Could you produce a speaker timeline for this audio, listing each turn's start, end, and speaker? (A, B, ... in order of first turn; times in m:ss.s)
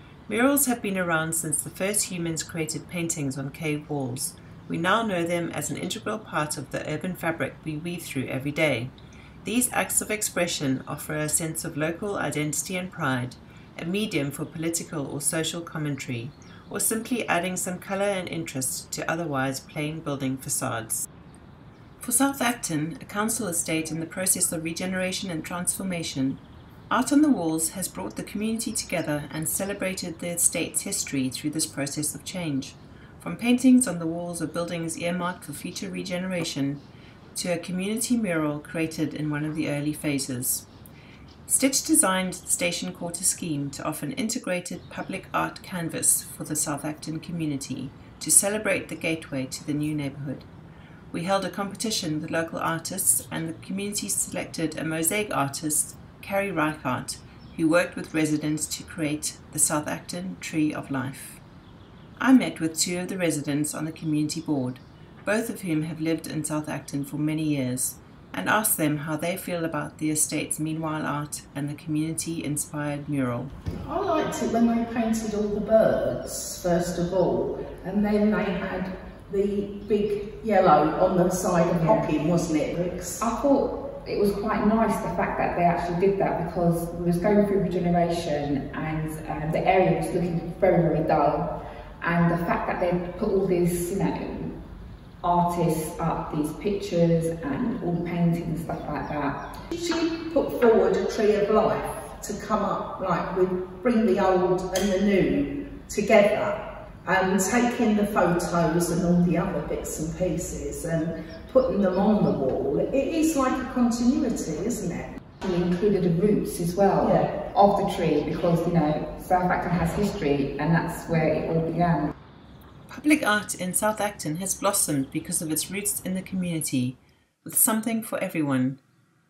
0:00.3-0:08.9 A
0:09.4-0:21.0 A
0:22.0-0:36.8 A
0:37.4-0:40.6 A
0:41.4-0:50.5 A
0:51.1-1:01.4 A
1:02.2-1:13.5 A
1:13.8-1:23.2 B
1:21.8-1:22.0 C
1:23.2-1:31.5 C
1:32.0-1:34.5 C
1:35.2-1:39.4 C
1:39.7-1:55.2 B
1:55.4-2:02.1 C
1:57.0-1:57.3 B
2:02.9-2:08.8 A